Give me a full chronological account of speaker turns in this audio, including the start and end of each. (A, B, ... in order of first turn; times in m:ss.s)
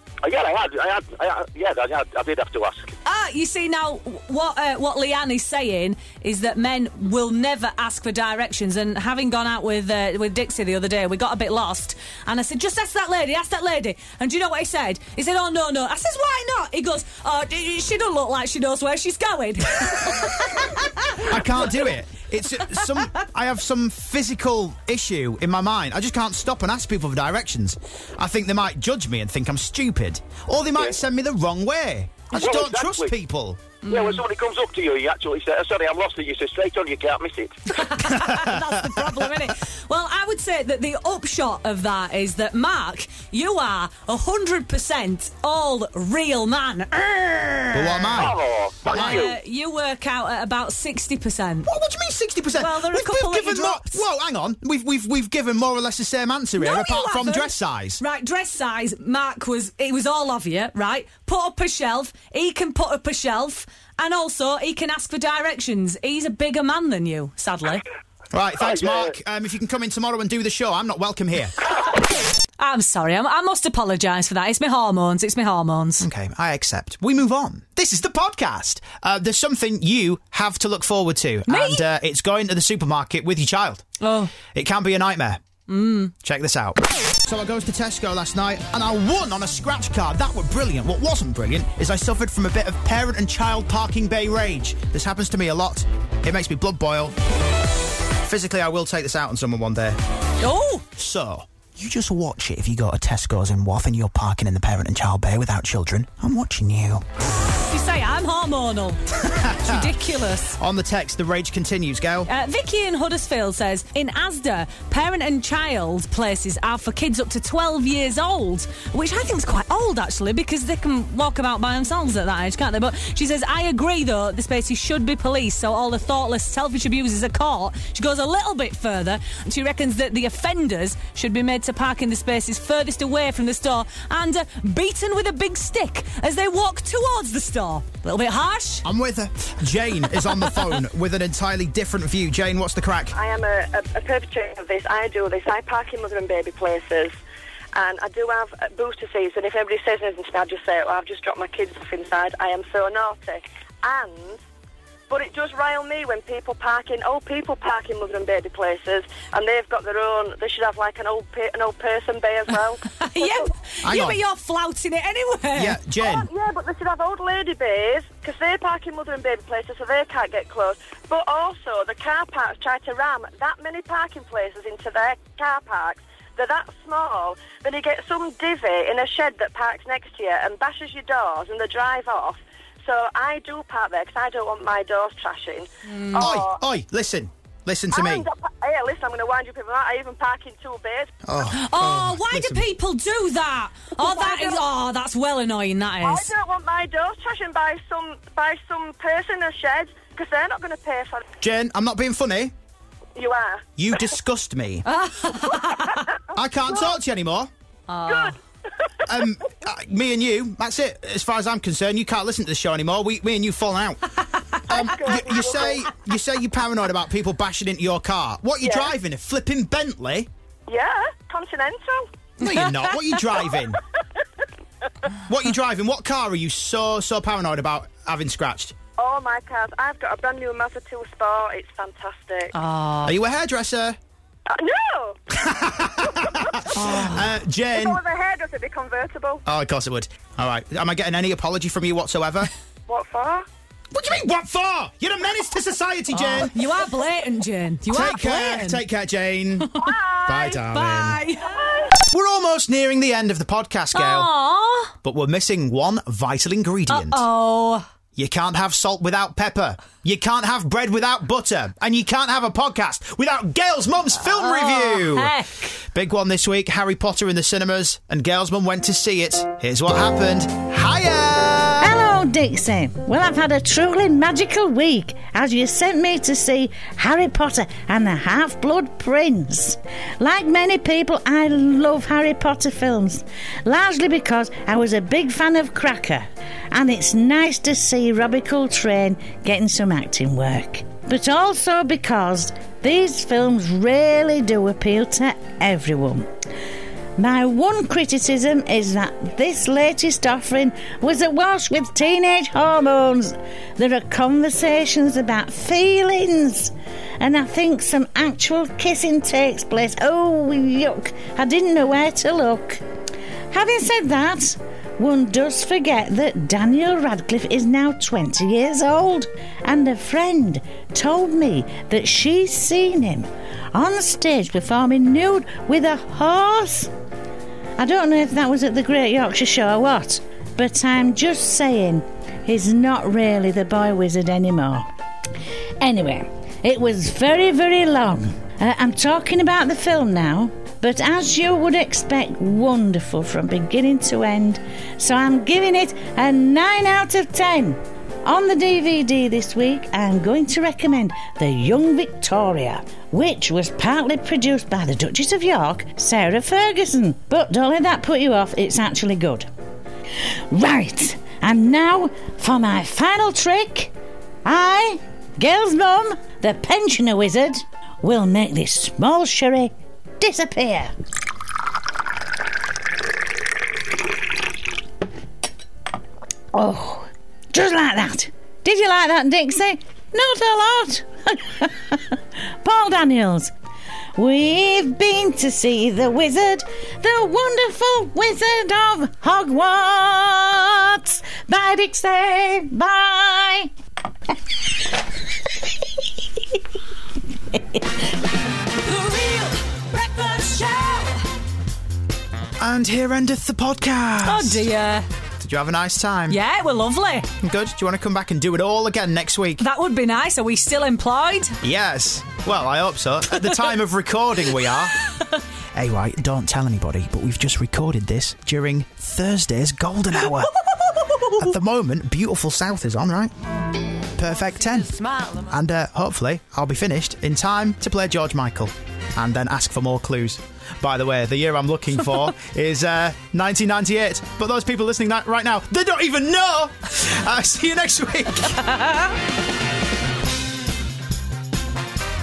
0:00.2-0:02.9 A
0:03.0-0:21.8 B
0:21.3-0:33.6 C
0:32.3-0:33.1 A
0:33.8-0:34.2 B
0:33.9-0:37.6 A
0:37.7-0:48.2 B
0:47.7-0:49.3 C
0:48.2-0:49.3 A
0:48.9-0:51.7 B
0:51.7-0:58.0 C
0:52.6-0:54.0 B
0:56.6-1:07.8 B
1:08.3-1:11.6 C
1:08.6-1:09.1 A
1:12.6-1:16.1 B
1:16.0-1:23.8 C
1:21.5-1:21.8 B
1:24.0-1:24.3 B
1:24.5-1:25.4 C
1:25.7-1:26.1 B
1:26.2-1:37.2 C
1:38.2-1:40.0 C
1:40.4-1:40.8 B
1:41.0-1:47.0 C
1:47.5-1:50.6 B
1:49.2-1:50.0 C
1:50.6-1:52.3 C
1:52.3-2:18.8 B
2:18.8-2:23.2 C
2:23.1-2:27.2 D
2:27.7-2:34.4 D
2:35.1-2:43.3 D
2:43.0-2:45.8 B
2:43.8-2:44.2 C
2:45.6-2:46.3 C
2:46.0-3:06.6 D
3:05.9-3:06.4 B
3:06.2-3:08.3 C
3:07.9-3:11.1 D
3:11.2-3:12.6 C
3:11.5-3:16.3 B
3:14.1-3:14.6 D
3:16.0-3:21.2 D
3:21.4-3:22.5 C
3:23.2-3:23.6 D
3:23.8-3:24.9 C
3:24.9-3:26.0 B
3:26.3-3:27.5 C
3:27.9-3:28.4 B
3:29.1-3:34.1 C
3:34.7-3:40.3 C
3:34.8-3:35.8 D
3:40.7-3:42.1 D
3:42.4-3:43.8 C
3:45.3-3:48.8 C
3:49.0-3:52.6 D
3:52.5-3:53.2 B
3:53.0-3:54.0 C
3:54.5-3:55.2 D
3:55.4-3:58.0 C
3:56.7-3:57.2 B
3:57.7-3:59.4 D
3:59.5-4:02.5 C
4:02.9-4:03.5 D
4:03.9-4:06.5 C
4:06.1-4:08.8 B
4:07.9-4:09.7 C
4:09.8-4:10.3 D
4:10.3-4:11.2 C
4:10.7-4:11.7 B
4:11.5-4:11.9 D
4:12.1-4:14.3 C
4:14.0-4:14.9 B
4:15.0-4:17.2 C
4:16.9-4:17.9 B
4:18.2-4:25.3 C
4:24.3-4:25.7 B
4:25.9-4:32.0 C
4:31.8-4:56.2 E
4:57.2-5:12.8 E
5:13.5-5:26.9 E
5:27.8-5:34.8 E
5:35.8-5:59.5 E
6:00.5-6:03.9 E
6:04.4-6:10.9 E
6:16.5-6:23.5 E
6:24.2-6:33.7 E
6:38.7-6:41.2 B
6:42.6-6:44.6 C
6:44.2-6:45.1 B
6:45.4-6:46.4 C
6:46.3-6:47.3 B
6:47.4-6:49.6 C
6:49.6-6:51.6 B
6:51.6-6:54.9 C
6:55.8-7:00.5 C
7:01.4-7:03.3 C
7:04.2-7:04.9 C
7:04.3-7:05.6 B
7:05.5-7:18.6 C
7:18.7-7:19.1 B